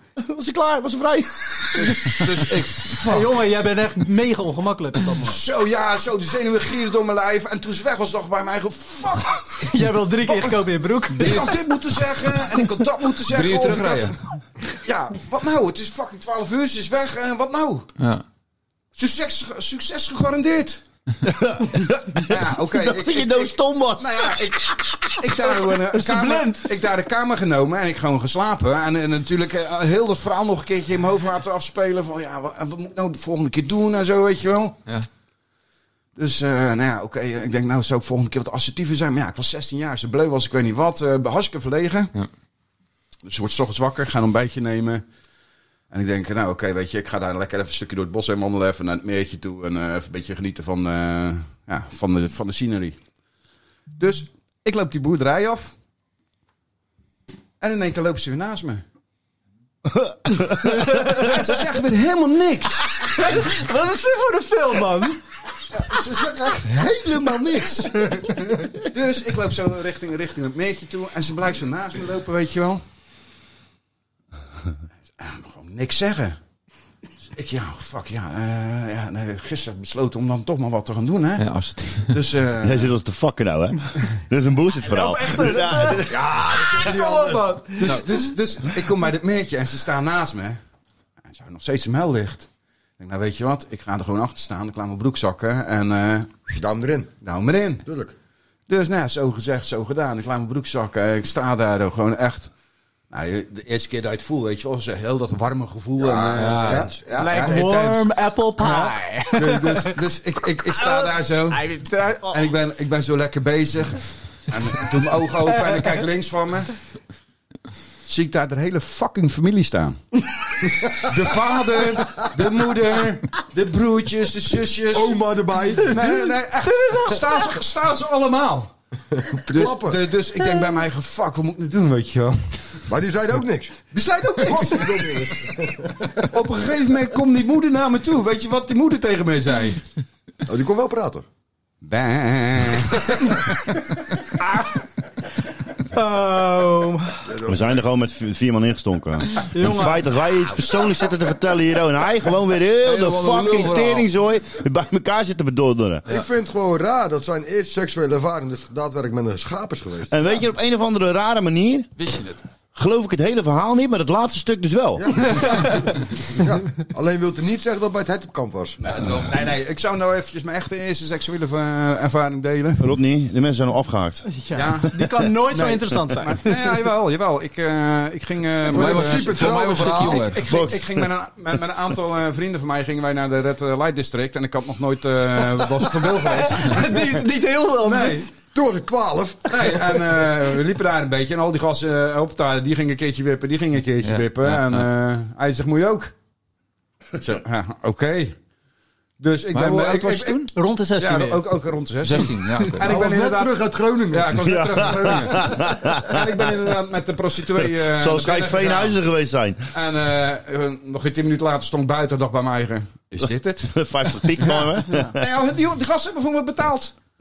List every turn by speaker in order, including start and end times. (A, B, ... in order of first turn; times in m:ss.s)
0:00.2-0:02.6 A
0:01.7-0:03.3 B
0:03.0-0:05.4 C
0:05.2-0:14.2 B
0:09.6-0:11.6 C
0:13.3-0:14.2 D
0:14.7-0:17.9 B
0:18.0-0:18.2 D
0:19.0-0:20.8 B
0:21.2-0:24.4 A
0:22.2-0:34.8 B
0:25.7-0:26.6 C
0:36.2-0:42.1 B
0:43.2-0:45.0 B
0:45.9-0:53.0 B
0:54.0-0:55.7 B
0:57.6-0:58.8 B
0:59.8-1:00.9 A
1:00.9-1:01.2 C
1:01.1-1:03.4 B
1:03.0-1:05.2 C
1:05.7-1:12.8 B
1:15.2-1:16.4 B
1:17.3-1:21.5 B
1:21.4-1:22.1 D
1:22.0-1:22.9 B
1:22.6-1:26.2 A
1:24.9-1:26.1 C
1:26.0-1:28.0 E
1:26.8-1:28.2 C
1:27.8-1:30.6 B
1:31.2-1:32.5 B
1:33.0-1:36.6 B
1:36.5-1:37.1 E
1:37.2-1:37.8 B
1:37.8-1:38.1 E
1:38.7-1:42.5 B
1:43.1-1:48.0 B
1:46.0-1:47.8 E
1:46.4-1:46.9 D
1:47.2-1:50.0 C
1:48.6-1:51.6 B
1:50.7-1:52.4 C
1:52.3-1:56.7 B
1:58.0-2:00.0 B
2:00.7-2:01.1 E
2:01.0-2:05.2 B
2:01.9-2:02.4 E
2:04.9-2:06.0 E
2:05.8-2:08.7 B
2:06.1-2:07.5 C
2:09.1-2:10.0 E
2:09.5-2:12.8 B
2:12.9-2:13.8 E
2:13.9-2:15.3 B
2:14.4-2:16.3 E
2:16.3-2:19.8 B
2:20.4-2:21.2 E
2:21.8-2:23.2 B
2:25.9-2:27.2 C
2:27.3-2:27.7 E
2:27.4-2:36.1 A
2:29.5-2:30.0 C
2:32.8-2:34.1 D
2:36.1-2:40.4 E
2:40.1-2:41.9 A
2:42.0-2:42.4 D
2:42.7-2:45.3 A
2:45.0-2:48.8 E
2:48.8-2:52.9 B
2:48.9-2:49.3 D
2:52.8-2:54.3 A
2:54.4-2:56.6 C
2:54.5-2:54.9 B
2:55.4-3:07.3 B
2:58.6-3:00.3 E
2:58.7-3:00.4 D
3:00.4-3:01.1 A
3:06.2-3:08.3 C
3:07.8-3:08.3 B
3:08.5-3:09.8 E
3:09.5-3:16.1 B
3:14.0-3:14.9 D
3:17.2-3:18.4 B
3:19.2-3:29.0 B
3:19.5-3:20.5 D
3:20.5-3:21.4 C
3:22.0-3:22.8 D
3:22.8-3:24.4 E
3:24.4-3:26.5 A
3:27.6-3:29.6 A
3:29.7-3:33.7 B
3:33.2-3:35.3 A
3:34.3-3:36.9 B